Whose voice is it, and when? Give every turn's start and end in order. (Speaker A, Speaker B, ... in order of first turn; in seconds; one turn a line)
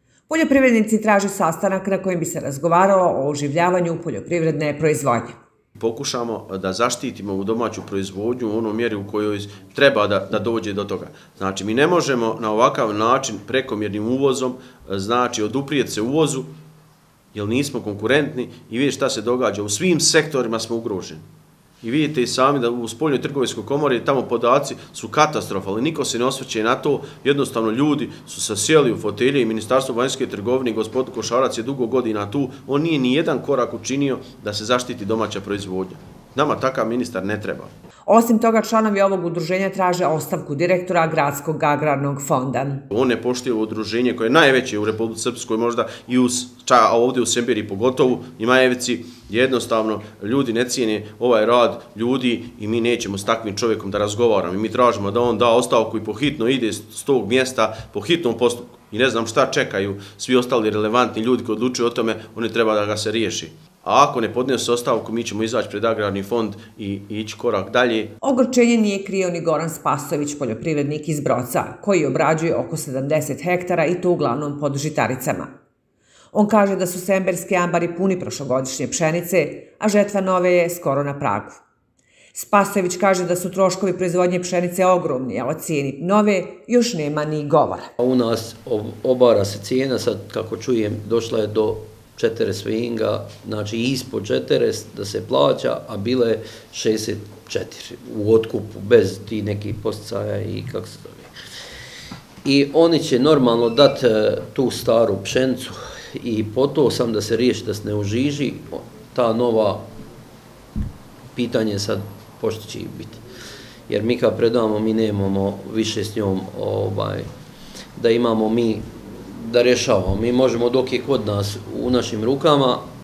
Speaker A: 0.3-5.3
Speaker B: 5.8-16.5
Speaker B: 17.3-21.2
Speaker B: 21.8-37.7
Speaker A: 38.1-42.8
Speaker B: 42.9-68.1
Speaker A: 68.2-75.5
Speaker A: 76.3-81.6
Speaker A: 82.3-87.9
Speaker C: 88.0-101.3
Speaker C: 102.4-109.9
Speaker C: 111.3-113.2
Speaker C: 113.9-117.3
Speaker C: 118.0-122.8